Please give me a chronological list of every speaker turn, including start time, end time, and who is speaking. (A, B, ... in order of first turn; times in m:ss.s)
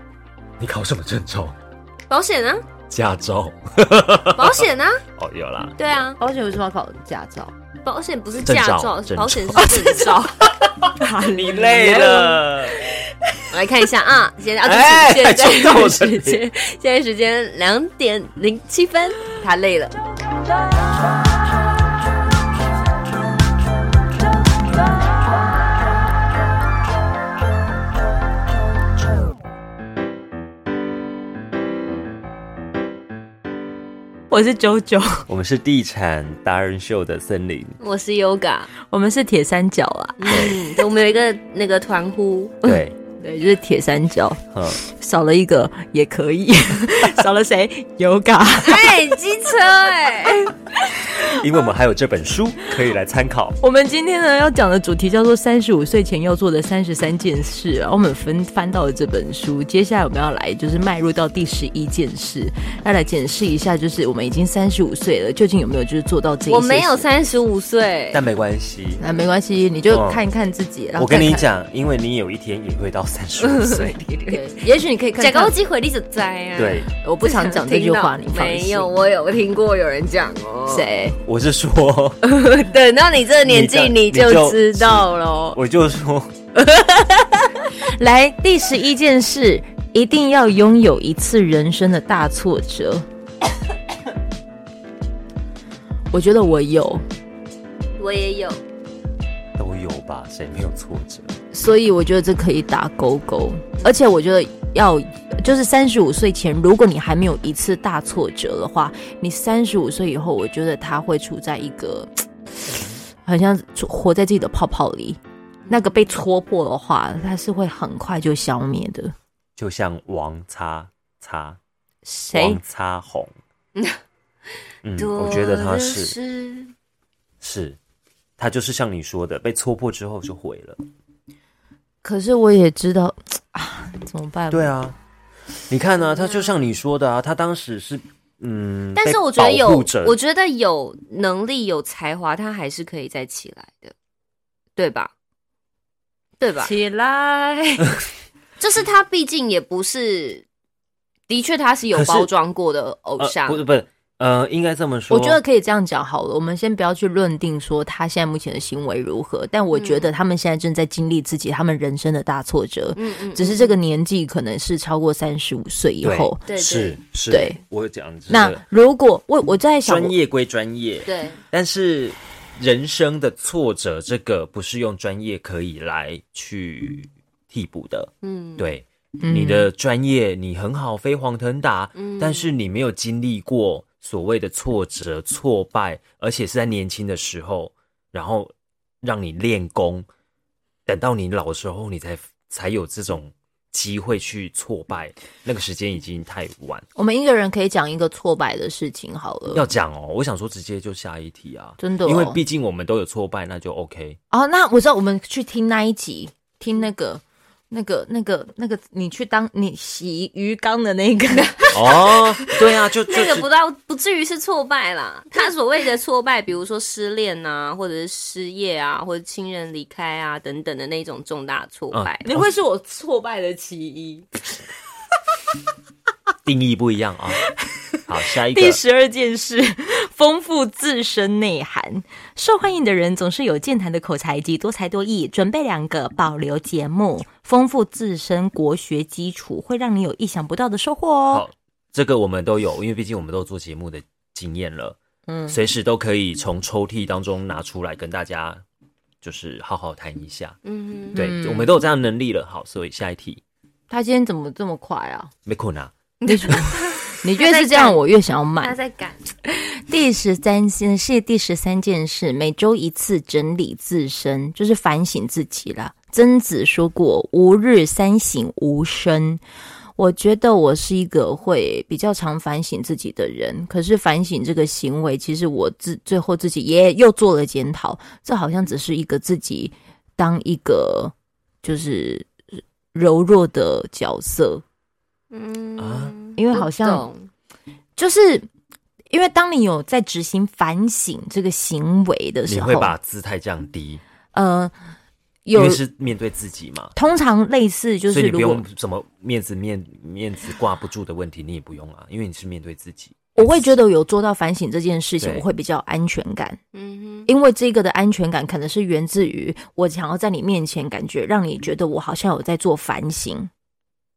0:00.6-0:01.5 A
0:02.1-0:02.6 B
0:02.9-0:04.7 A
0:04.4-0:05.0 B
0:05.2-0:05.8 A
0:05.8-0:06.2 B
0:06.2-0:07.5 C
0:07.8-0:10.4 B
0:08.4-0:09.9 A
0:09.6-0:10.0 C
0:10.6-0:12.8 A
0:11.0-0:12.1 C
0:11.6-0:12.5 B
0:13.5-0:20.0 B
0:14.6-0:16.4 A
0:34.3-0:35.3 C
0:35.3-0:37.8 A
0:37.8-0:38.7 B
0:38.8-0:40.5 C
0:40.2-0:42.8 B
0:40.3-0:40.6 A
0:42.6-0:43.0 A
0:43.2-0:49.0 C
0:48.6-0:50.6 B
0:50.9-0:51.3 C
0:51.2-0:53.6 A
0:53.6-1:07.0 C
1:06.5-1:08.2 B
1:08.1-1:09.0 A
1:09.0-1:11.5 C
1:09.9-1:10.2 A
1:11.0-1:14.0 A
1:13.4-1:14.6 B
1:14.3-1:15.5 C
1:15.2-1:20.9 B
1:16.6-1:16.9 A
1:17.0-1:18.9 C
1:20.7-1:21.2 C
1:21.2-1:22.2 A
1:22.2-1:25.6 B
1:23.4-1:26.4 A
1:27.8-1:33.0 C
1:36.1-1:37.0 C
1:38.0-1:38.6 B
1:39.6-1:41.3 A
1:41.5-1:52.2 C
1:53.2-1:59.1 C
1:59.6-2:01.6 A
2:02.0-2:02.6 C
2:02.3-2:03.3 A
2:04.8-2:06.2 A
2:05.0-2:06.7 B
2:07.4-2:07.8 A
2:08.4-2:10.8 A
2:12.0-2:14.7 C
2:14.5-2:15.0 A
2:15.7-2:20.2 A
2:16.0-2:16.6 B
2:18.9-2:23.9 B
2:24.8-2:25.1 B
2:26.4-2:26.7 B
2:26.6-2:27.9 C
2:28.6-2:30.4 B
2:31.3-2:33.6 B
2:31.9-2:32.3 A
2:33.2-2:35.4 A
2:35.1-2:46.4 C
2:39.7-2:40.1 B
2:42.9-2:43.8 B
2:46.0-2:48.6 A
2:46.4-2:47.0 B
2:47.3-2:47.6 C
2:48.3-2:50.1 C
2:49.8-3:10.1 A
2:51.1-2:51.4 B
2:58.2-2:58.7 B
2:59.2-2:59.7 C
3:02.0-3:02.5 B
3:10.8-3:16.9 A
3:17.0-3:19.6 C
3:19.5-3:24.2 A
3:21.8-3:22.4 C
3:24.3-3:32.5 C
3:31.3-3:31.8 B
3:31.7-3:33.5 A
3:33.1-3:42.4 B
3:41.9-3:42.4 A
3:42.2-3:44.3 C
3:46.4-3:47.4 A
3:48.1-3:48.8 A
3:48.4-4:01.4 C
4:01.3-4:08.6 A
4:05.3-4:05.6 C
4:09.2-4:10.6 A
4:10.6-4:11.2 B
4:11.1-4:11.7 C
4:11.2-4:13.4 A
4:13.9-4:15.3 C
4:15.4-4:15.9 A
4:16.2-4:18.0 B
4:16.2-4:18.8 C
4:18.6-4:19.3 B
4:19.5-4:29.4 C
4:30.0-4:42.3 C
4:42.9-4:44.6 C
4:45.3-4:47.3 B
4:45.8-4:46.1 A
4:46.4-4:47.1 C
4:48.0-4:48.5 C
4:49.1-4:52.9 C
4:52.5-4:54.0 A
4:54.3-4:54.8 C
4:55.4-4:55.8 C
4:55.6-4:56.9 A
4:56.9-4:58.6 C
4:58.1-5:03.7 A
5:03.3-5:06.6 C
5:06.7-5:07.3 B
5:07.2-5:13.5 C